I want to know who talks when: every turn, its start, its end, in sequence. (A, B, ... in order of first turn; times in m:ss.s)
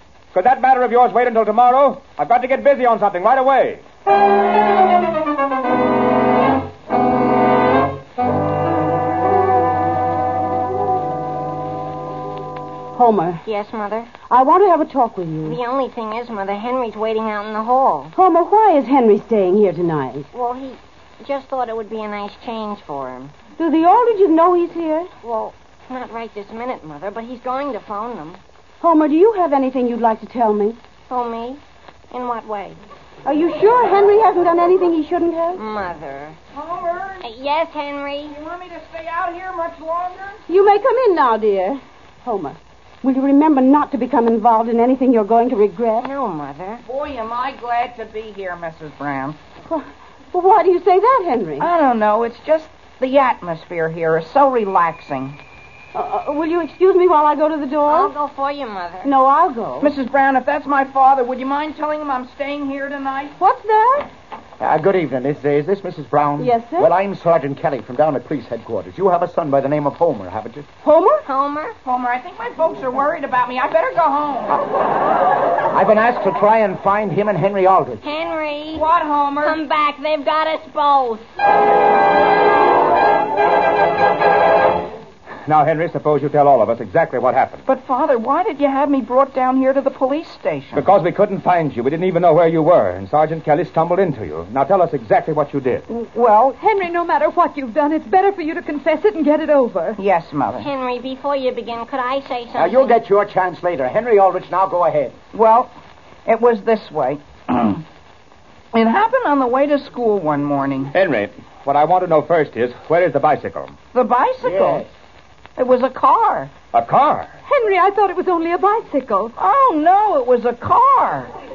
0:00.3-0:03.8 A
0:13.0-0:13.4 B
0:13.4-0:14.1 C
0:14.2-0:15.6 B
0:15.4-0:18.1 C
0:18.2-0:20.3 B
0:20.3-0:23.3 C
0:23.6-0:25.1 B
0:25.2-0:28.4 C
0:28.8-0:30.8 B
0:31.1-0:31.6 C
0:32.1-0:32.8 C
0:33.2-0:35.6 B
0:35.6-0:36.4 C
0:36.5-0:37.3 D
0:37.2-0:38.3 C
0:38.2-0:40.4 D
0:40.5-0:46.1 B
0:46.0-0:46.8 C
0:46.8-0:49.4 D
0:49.6-0:51.7 B
0:51.6-0:55.4 D
0:55.9-0:58.1 B
0:57.9-0:59.1 C
0:59.0-0:59.9 B
0:59.8-1:03.4 D
1:03.4-1:04.1 B
1:04.6-1:10.7 E
1:06.4-1:06.9 B
1:10.8-1:11.2 B
1:11.2-1:11.8 C
1:11.8-1:14.6 D
1:15.7-1:18.1 E
1:18.0-1:18.9 C
1:18.7-1:19.6 D
1:19.4-1:21.2 C
1:25.5-1:27.6 A
1:27.7-1:30.9 D
1:30.7-1:35.8 A
1:35.9-1:36.6 D
1:36.6-1:40.0 F
1:40.0-1:40.7 D
1:40.6-1:43.0 C
1:42.5-1:45.2 E
1:45.3-1:45.7 D
1:46.3-1:47.8 D
1:48.7-1:50.9 D
1:50.9-1:53.7 A
1:53.9-1:54.8 D
1:54.4-1:54.9 E
1:55.6-1:56.5 D
1:56.7-1:57.3 A
1:57.5-1:59.4 F
1:59.4-2:01.3 D